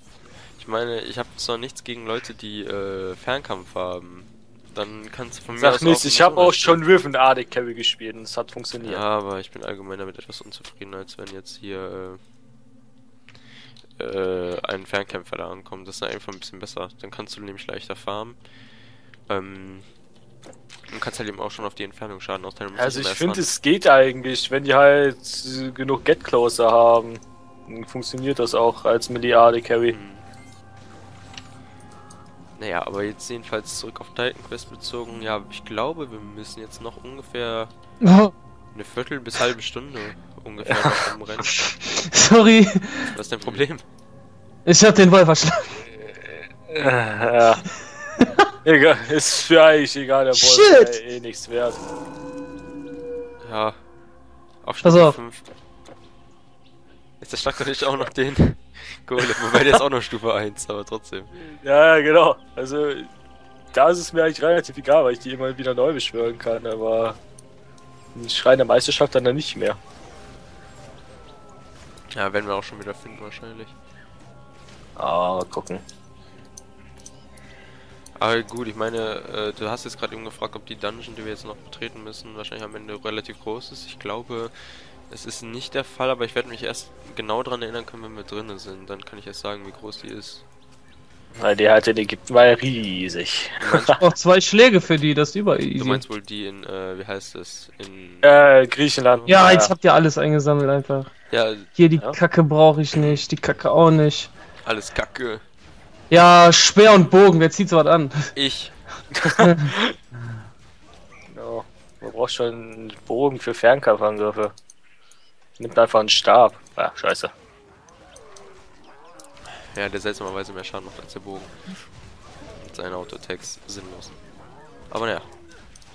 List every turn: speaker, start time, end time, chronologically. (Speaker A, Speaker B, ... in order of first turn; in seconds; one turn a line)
Speaker A: 0.6-6.8
Speaker B: 5.5-9.0
Speaker A: 8.8-12.2
Speaker A: 14.0-18.4
Speaker A: 19.3-19.9
Speaker A: 20.9-23.5
Speaker B: 22.7-30.0
Speaker A: 29.9-30.2
Speaker A: 32.6-37.7
Speaker C: 38.0-38.3
Speaker A: 38.7-41.6
Speaker C: 41.5-43.1
Speaker A: 43.0-43.8
Speaker C: 44.6-45.8
Speaker B: 46.1-47.6
Speaker B: 48.6-51.8
Speaker C: 50.3-51.0
Speaker A: 53.4-53.8
Speaker A: 54.6-55.5
Speaker C: 54.8-55.2
Speaker A: 57.2-61.3
Speaker B: 61.4-63.1
Speaker B: 63.7-67.2
Speaker B: 68.1-69.8
Speaker A: 72.1-73.7
Speaker B: 75.0-75.8
Speaker A: 78.2-90.4
Speaker B: 91.3-93.9
Speaker A: 93.6-94.0
Speaker C: 94.0-96.0
Speaker A: 95.7-98.3
Speaker B: 98.2-99.7
Speaker A: 99.1-99.3
Speaker C: 99.3-101.1
Speaker A: 101.3-101.7
Speaker C: 101.8-104.3
Speaker A: 102.9-103.2
Speaker A: 104.6-105.4
Speaker C: 106.1-108.3
Speaker A: 108.3-108.7
Speaker B: 109.1-109.9
Speaker C: 109.4-109.7
Speaker B: 111.3-114.5
Speaker B: 115.6-117.3
Speaker A: 119.6-121.5
Speaker A: 122.6-124.1
Speaker A: 124.9-125.3